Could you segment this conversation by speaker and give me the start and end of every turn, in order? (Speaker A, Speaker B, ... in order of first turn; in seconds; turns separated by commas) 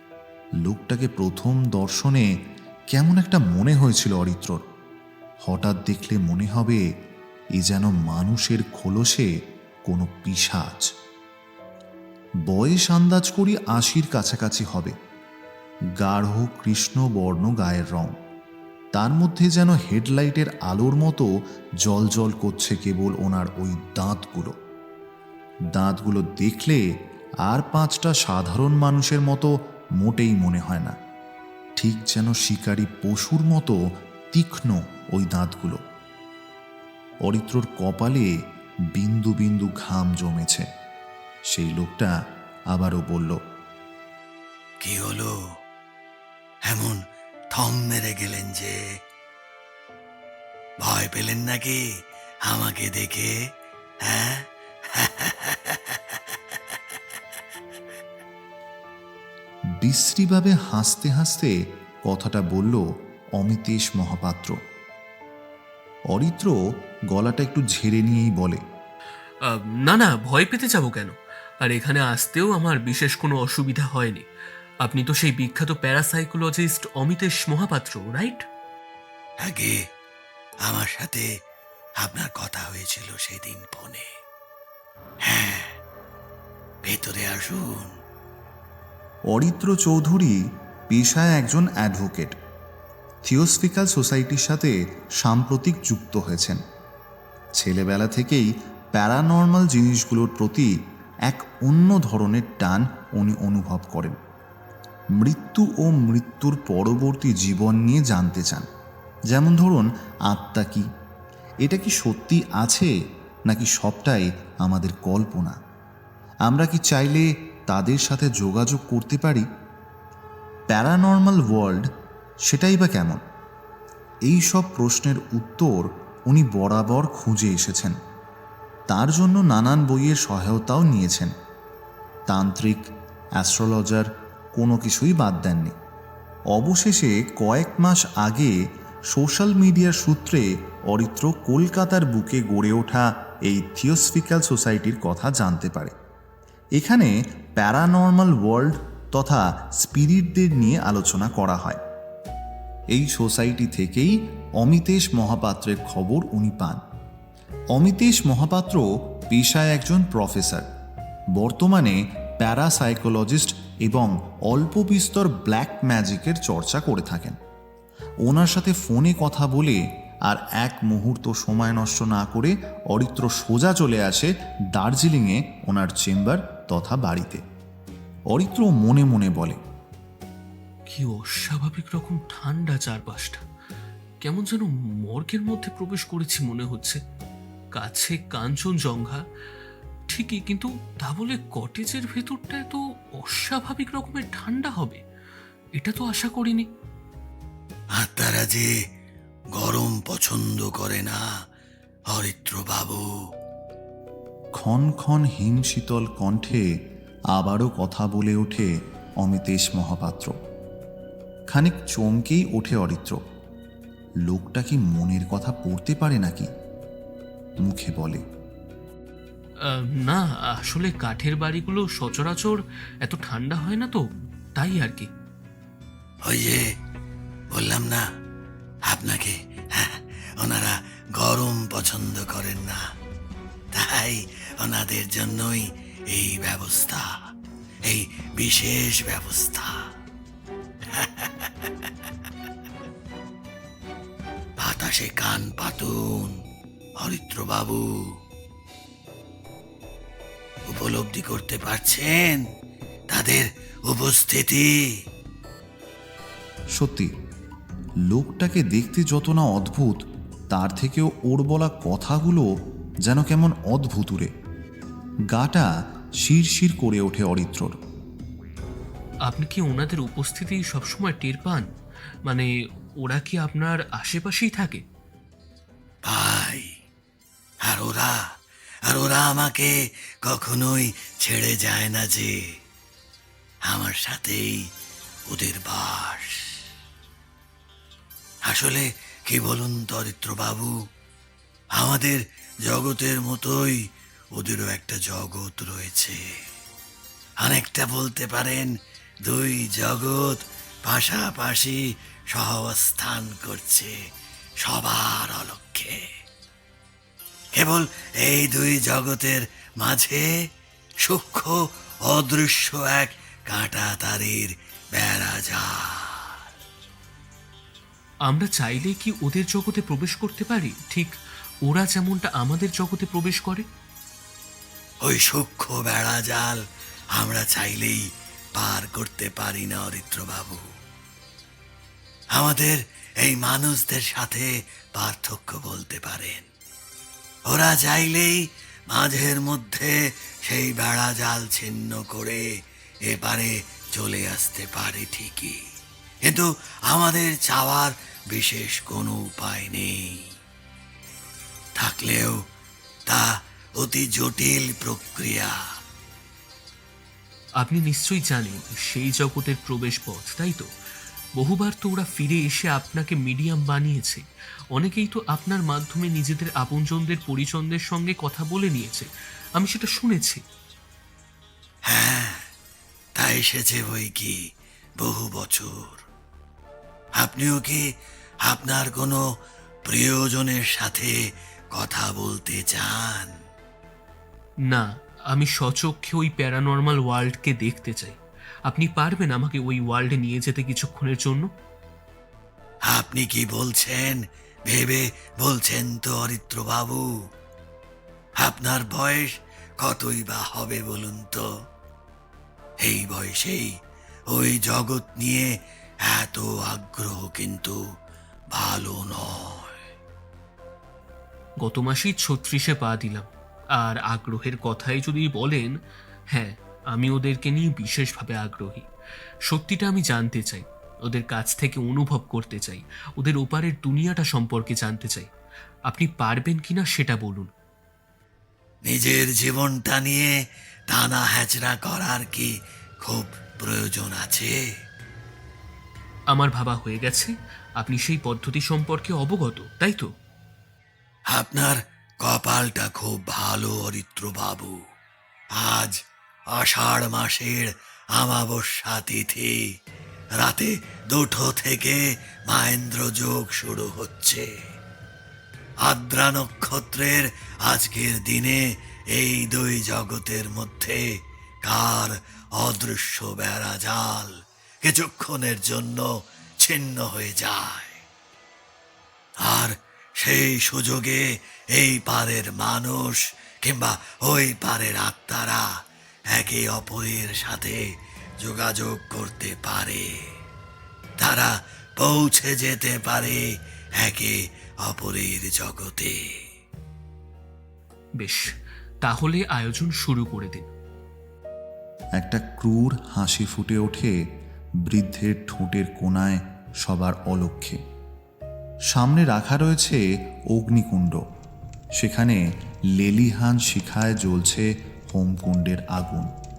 Speaker A: 0.6-2.3, Speaker A: 2.9-4.6, Speaker A: 5.5-6.8, Speaker A: 7.6-9.3, Speaker A: 9.9-10.9, Speaker A: 12.5-14.9, Speaker A: 16.0-18.2, Speaker A: 18.9-21.3, Speaker A: 21.8-24.6, Speaker A: 25.8-26.9, Speaker A: 27.4-31.0, Speaker A: 31.8-33.8, Speaker A: 34.3-35.8, Speaker A: 37.2-38.3, Speaker A: 38.9-40.7, Speaker A: 41.5-42.1, Speaker A: 42.7-43.4, Speaker B: 44.8-45.6, Speaker B: 46.7-48.9, Speaker B: 50.8-51.9, Speaker B: 52.5-53.4, Speaker B: 54.0-56.7, Speaker A: 59.8-61.5, Speaker A: 62.1-62.8, Speaker A: 63.4-64.6, Speaker A: 66.1-66.5, Speaker A: 67.1-68.6, Speaker C: 69.4-74.3, Speaker C: 74.8-78.5, Speaker B: 79.4-79.8, Speaker B: 80.7-81.3, Speaker B: 82.0-84.1, Speaker B: 85.2-85.8, Speaker B: 86.8-87.9, Speaker A: 89.3-92.4, Speaker A: 93.3-96.6, Speaker A: 97.6-100.7, Speaker A: 101.3-104.2, Speaker A: 105.2-108.7, Speaker A: 109.3-110.9, Speaker A: 111.6-112.9, Speaker A: 113.5-115.6, Speaker A: 116.5-119.5, Speaker A: 120.7-121.9, Speaker A: 122.5-123.2, Speaker A: 124.3-128.0, Speaker A: 128.9-131.3, Speaker A: 132.3-135.8, Speaker A: 136.5-138.6, Speaker A: 139.1-145.9, Speaker A: 146.8-151.8, Speaker A: 152.9-156.8, Speaker A: 157.7-160.7, Speaker A: 161.3-167.4, Speaker A: 168.2-177.4, Speaker A: 178.3-179.6, Speaker C: 180.9-183.4, Speaker C: 184.2-187.0, Speaker C: 187.8-189.2, Speaker C: 190.1-195.0, Speaker C: 195.8-196.7, Speaker B: 198.0-198.7, Speaker B: 199.6-201.3, Speaker B: 202.1-203.1, Speaker A: 204.6-206.7, Speaker A: 207.3-208.7, Speaker A: 209.2-210.4, Speaker A: 211.5-213.2, Speaker A: 214.3-216.5, Speaker A: 217.6-218.2, Speaker C: 219.6-225.1, Speaker B: 226.2-226.7, Speaker B: 227.5-228.1, Speaker B: 228.9-232.8, Speaker B: 233.7-237.2, Speaker B: 237.8-239.9, Speaker B: 240.9-242.1, Speaker B: 244.6-246.4, Speaker B: 247.0-247.9, Speaker B: 250.7-252.4, Speaker B: 253.1-254.8, Speaker A: 256.8-257.1, Speaker A: 258.1-262.5, Speaker A: 263.1-264.3, Speaker A: 265.3-265.7, Speaker A: 266.2-267.8, Speaker C: 269.2-271.7, Speaker C: 272.3-274.8, Speaker B: 276.1-276.7, Speaker B: 277.6-278.3, Speaker B: 278.9-282.4, Speaker B: 283.7-284.7, Speaker B: 285.3-286.6, Speaker B: 288.5-290.8, Speaker B: 291.8-293.8, Speaker B: 294.4-296.2, Speaker B: 297.4-298.7, Speaker B: 299.3-304.0, Speaker B: 304.6-306.1, Speaker B: 307.6-310.3, Speaker B: 311.0-316.4, Speaker C: 318.3-321.1, Speaker C: 321.6-323.7, Speaker B: 325.0-326.6, Speaker B: 327.1-328.0, Speaker B: 328.6-330.7, Speaker B: 332.4-336.5, Speaker B: 337.5-342.5, Speaker B: 343.1-345.6, Speaker B: 346.2-350.3, Speaker B: 351.8-352.4, Speaker B: 353.1-355.6, Speaker C: 357.6-360.7, Speaker C: 361.4-370.4, Speaker B: 371.9-372.5, Speaker B: 373.2-374.4, Speaker B: 375.0-376.0, Speaker B: 377.2-377.8, Speaker B: 378.4-379.2, Speaker B: 379.9-381.2, Speaker B: 381.7-383.3, Speaker C: 384.7-391.5, Speaker B: 392.9-397.1, Speaker B: 398.4-401.5, Speaker B: 402.8-403.7, Speaker B: 404.3-405.5, Speaker B: 406.1-407.8, Speaker B: 408.5-409.8, Speaker C: 411.6-415.8, Speaker C: 416.3-418.9, Speaker C: 419.5-425.3, Speaker C: 425.9-427.5, Speaker B: 428.9-430.4, Speaker B: 430.9-434.6, Speaker C: 436.3-440.1, Speaker B: 441.3-444.8, Speaker B: 445.5-446.0, Speaker B: 446.5-449.6, Speaker B: 450.4-454.5, Speaker B: 455.9-461.1, Speaker B: 461.6-468.0, Speaker B: 469.4-475.7, Speaker B: 476.3-477.8, Speaker B: 478.4-480.3, Speaker B: 481.2-486.4, Speaker C: 488.2-490.7, Speaker A: 492.2-494.2, Speaker A: 494.8-497.8, Speaker A: 498.9-501.2, Speaker A: 502.0-502.4, Speaker A: 503.0-506.3